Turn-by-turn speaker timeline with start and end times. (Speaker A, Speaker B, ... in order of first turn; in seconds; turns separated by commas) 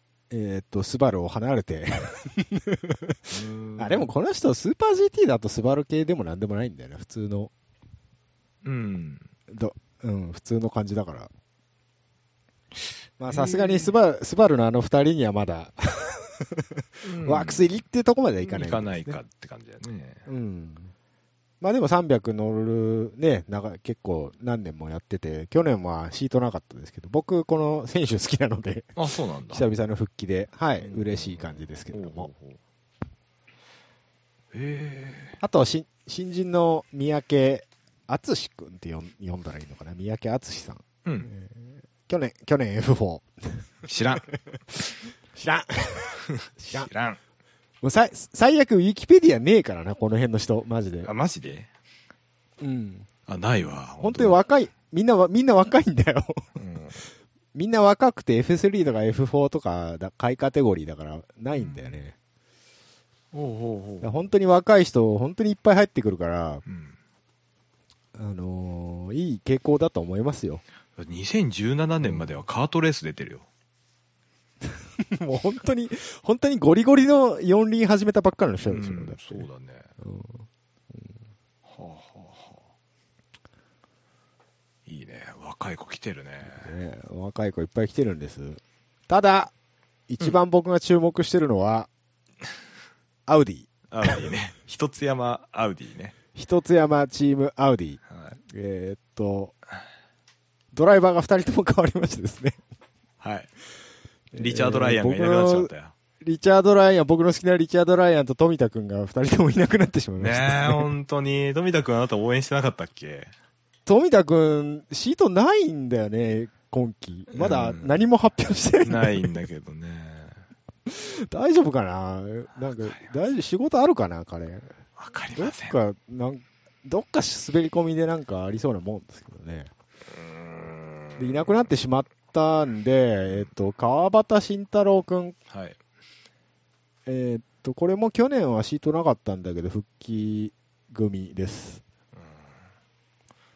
Speaker A: 0.3-7.5, Speaker B: 3.3-4.1, Speaker B: 8.6-9.3, Speaker A: 9.5-11.3, Speaker A: 13.2-19.2, Speaker B: 13.3-13.9, Speaker B: 17.0-17.7, Speaker B: 18.4-20.2, Speaker A: 20.2-20.9, Speaker A: 21.6-28.9, Speaker B: 28.9-29.7, Speaker A: 29.5-32.3, Speaker B: 30.8-32.6, Speaker B: 34.5-35.4, Speaker A: 35.4-43.6, Speaker B: 41.0-41.3, Speaker B: 43.9-44.3, Speaker A: 45.3-46.9, Speaker B: 46.7-47.2, Speaker A: 47.8-51.1, Speaker B: 51.0-51.7, Speaker A: 52.6-53.1, Speaker B: 53.3-54.4, Speaker A: 54.0-56.5, Speaker B: 56.5-57.0, Speaker A: 57.5-62.1, Speaker B: 61.5-62.0, Speaker B: 63.3-64.1, Speaker A: 64.0-66.6, Speaker B: 66.7-67.0, Speaker A: 68.2-70.6, Speaker B: 71.0-73.5, Speaker A: 72.0-72.3, Speaker A: 74.6-79.4, Speaker B: 78.7-79.9, Speaker A: 80.0-81.0, Speaker B: 81.6-82.7, Speaker B: 84.8-86.7, Speaker A: 86.5-89.5, Speaker A: 90.1-91.9, Speaker A: 93.3-94.2, Speaker B: 93.9-96.1, Speaker A: 96.3-99.5, Speaker B: 98.1-98.4, Speaker A: 100.7-102.6, Speaker B: 103.2-103.5, Speaker A: 104.3-110.9, Speaker B: 104.3-105.9, Speaker B: 110.2-113.3, Speaker A: 113.8-119.3, Speaker B: 117.3-118.0, Speaker B: 118.8-120.4, Speaker A: 120.9-124.7, Speaker B: 122.6-123.0, Speaker B: 125.0-125.8, Speaker A: 125.3-129.7, Speaker B: 130.1-131.5, Speaker A: 131.2-135.3, Speaker B: 135.5-135.8, Speaker A: 137.1-141.8, Speaker B: 142.1-142.6